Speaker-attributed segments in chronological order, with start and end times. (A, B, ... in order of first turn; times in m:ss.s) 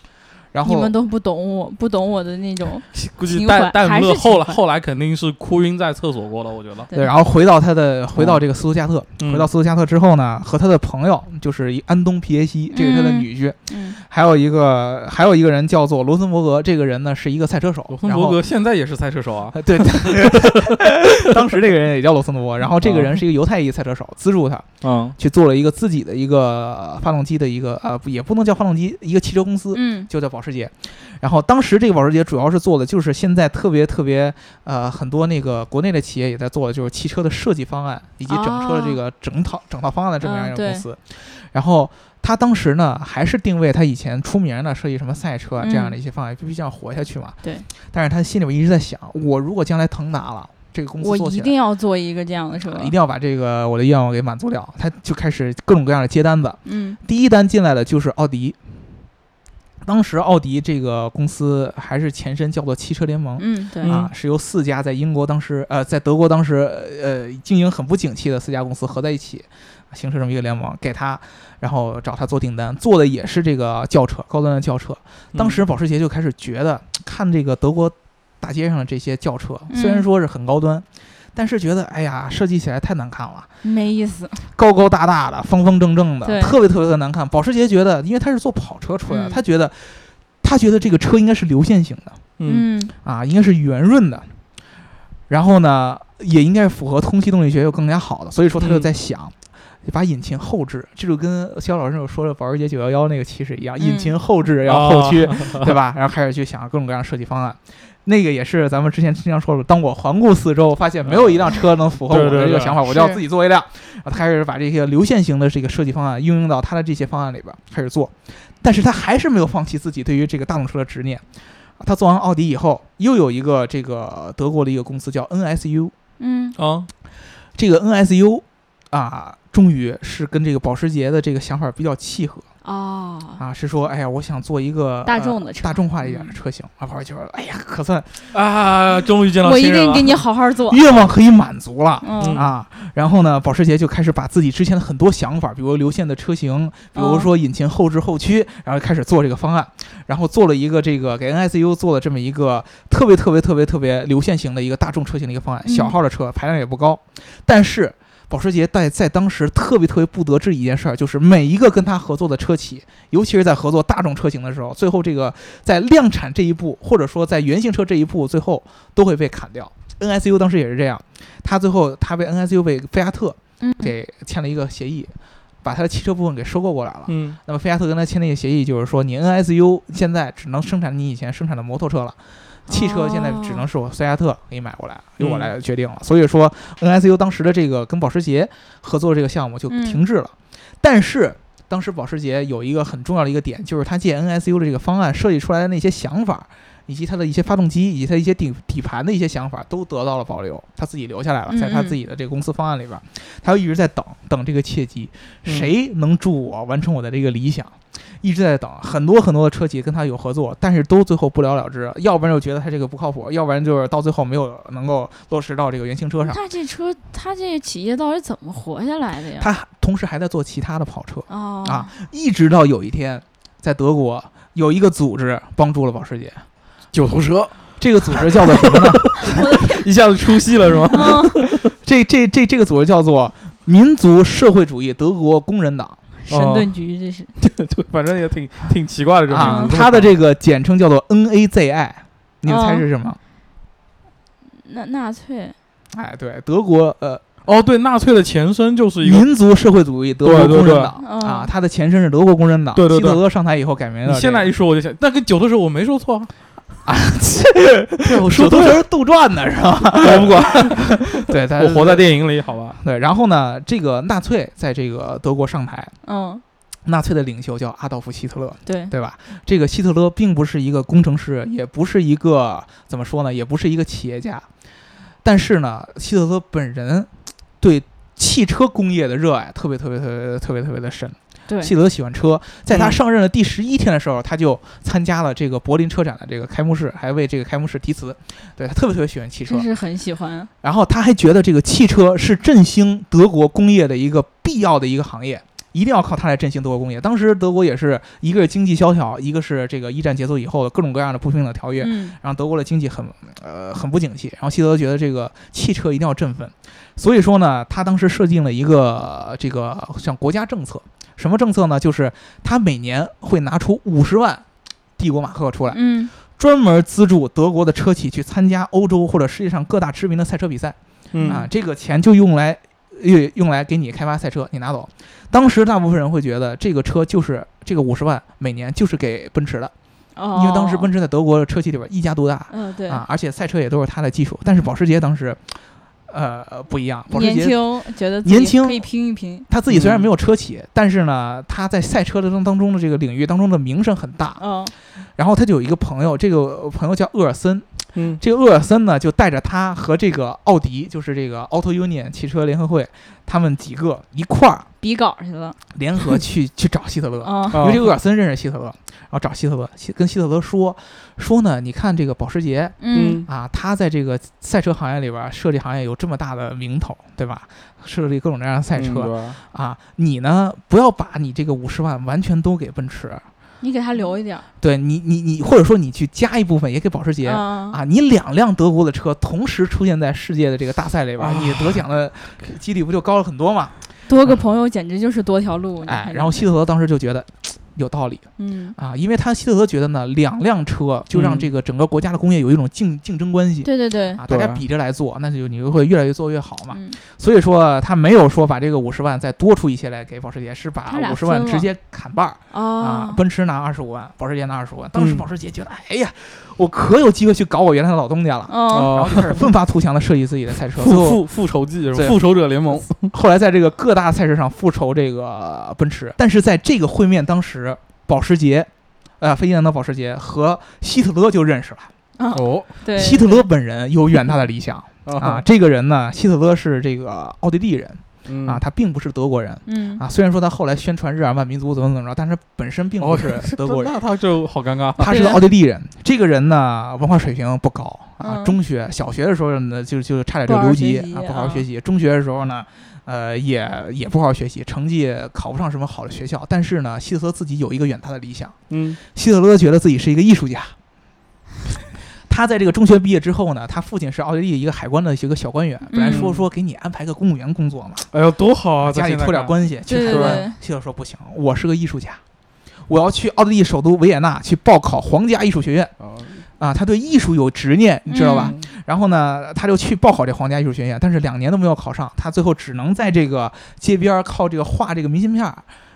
0:00.5-0:00.9 A
0:00.6-0:04.6 B
0:02.9-0:06.9 C
0:06.9-0:18.4 A
0:08.2-0:08.4 C
0:09.2-0:09.5 C
0:12.7-0:14.0 B
0:17.9-0:20.7 C
0:19.5-0:24.6 A
0:22.8-0:23.2 C
0:24.8-0:25.2 C
0:25.2-0:51.5 A
0:29.7-0:30.1 B
0:38.3-0:39.0 B
0:40.2-0:40.8 B
0:45.6-0:46.0 B
0:51.0-0:52.9 B
0:52.6-0:58.7 A
0:56.6-0:57.0 B
0:59.8-1:23.5 A
1:03.4-1:04.1 B
1:15.3-1:15.6 C
1:19.7-1:20.0 B
1:23.6-1:24.4 B
1:24.5-1:32.2 A
1:26.2-1:26.5 B
1:29.1-1:29.4 B
1:32.4-1:32.6 C
1:32.4-1:32.9 B
1:33.0-1:34.3 A
1:35.3-2:01.2 A
1:38.6-1:38.9 C
1:43.8-1:44.1 B
1:44.6-1:45.7 C
1:51.0-1:52.8 C
1:52.8-1:53.2 B
2:01.8-2:05.9 A
2:06.2-2:06.6 B
2:06.6-2:06.9 C
2:07.6-2:12.4 A
2:12.6-2:13.4 B
2:13.4-2:18.3 A
2:15.0-2:16.3 B
2:18.3-2:20.2 C
2:19.4-2:20.8 B
2:20.7-3:36.4 A
2:22.0-2:22.4 B
2:22.2-2:22.5 C
2:26.9-2:27.3 B
2:35.6-2:36.0 B
2:53.6-2:53.9 B
2:57.1-2:57.4 C
3:02.7-3:03.6 B
3:05.2-3:05.5 C
3:09.7-3:10.0 B
3:21.5-3:22.0 B
3:36.2-3:39.5 B
3:39.4-3:46.4 A
3:41.3-3:41.9 B
3:46.9-3:51.7 C
3:47.8-3:49.2 A
3:49.2-3:49.9 B
3:50.9-3:51.4 B
3:51.0-3:56.0 A
3:56.2-3:57.3 B
3:56.3-3:56.7 C
3:57.4-4:00.1 C
3:59.3-4:03.2 A
3:59.4-3:59.7 B
4:02.4-4:02.8 B
4:04.6-4:05.5 B
4:05.9-4:07.2 A
4:07.4-4:09.3 C
4:09.0-4:14.5 A
4:10.2-4:10.9 C
4:11.0-4:11.5 B
4:12.8-4:13.2 C
4:14.0-4:16.3 C
4:16.8-4:22.1 A
4:18.0-4:18.8 C
4:19.9-4:21.0 C
4:21.6-4:22.8 C
4:22.8-4:25.9 A
4:26.0-4:26.4 B
4:26.8-4:34.4 A
4:28.6-4:28.9 B
4:35.2-4:49.7 A
4:41.5-4:41.7 B
4:42.7-4:43.0 C
4:49.4-4:50.5 B
4:50.6-5:14.4 A
5:01.8-5:02.2 B
5:15.0-5:29.7 A
5:15.7-5:16.1 B
5:21.1-5:21.4 C
5:21.2-5:21.5 B
5:30.2-5:30.9 B
5:30.3-5:35.6 A
5:32.5-5:33.0 B
5:36.1-5:37.6 A
5:37.1-5:39.5 B
5:38.2-5:38.9 A
5:39.5-5:44.4 A
5:39.7-5:40.0 C
5:44.4-5:44.7 B
5:45.2-5:54.7 A
5:48.0-5:48.2 C
5:54.8-5:55.6 B
5:55.7-6:13.2 A
5:57.2-5:57.6 B
5:57.5-5:57.9 C
6:02.8-6:03.2 B
6:02.9-6:03.2 C
6:08.7-6:09.4 C
6:13.6-6:14.4 B
6:14.6-6:23.7 A
6:17.2-6:17.8 B
6:21.2-6:21.8 C
6:24.1-6:26.4 B
6:25.8-6:51.2 A
6:28.4-6:28.8 B
6:31.1-6:31.5 C
6:33.6-6:34.2 B
6:34.3-6:34.6 C
6:36.7-6:37.0 B
6:40.9-6:41.7 B
6:42.5-6:43.2 B
6:45.0-6:45.2 C
6:48.5-6:48.9 B
6:48.7-6:49.5 C
6:50.8-6:53.1 C
6:51.9-6:52.2 A
6:52.7-7:01.9 A
7:02.2-7:03.4 B
7:02.3-7:02.7 C
7:02.9-7:14.0 A
7:05.0-7:05.4 C
7:08.3-7:08.6 C
7:09.6-7:10.0 B
7:13.0-7:15.2 C
7:15.0-7:28.5 A
7:15.0-7:15.4 B
7:18.2-7:18.5 B
7:20.4-7:21.6 B
7:28.7-7:29.0 C
7:29.1-7:30.7 A
7:32.3-7:38.1 A
7:35.9-7:36.3 B
7:36.0-7:36.4 C
7:38.1-7:40.4 C
7:38.8-7:42.2 A
7:39.9-7:40.6 B
7:42.9-7:45.9 A
7:46.0-7:46.4 C
7:46.6-7:55.7 A
7:48.1-7:48.5 B
7:48.2-7:48.6 C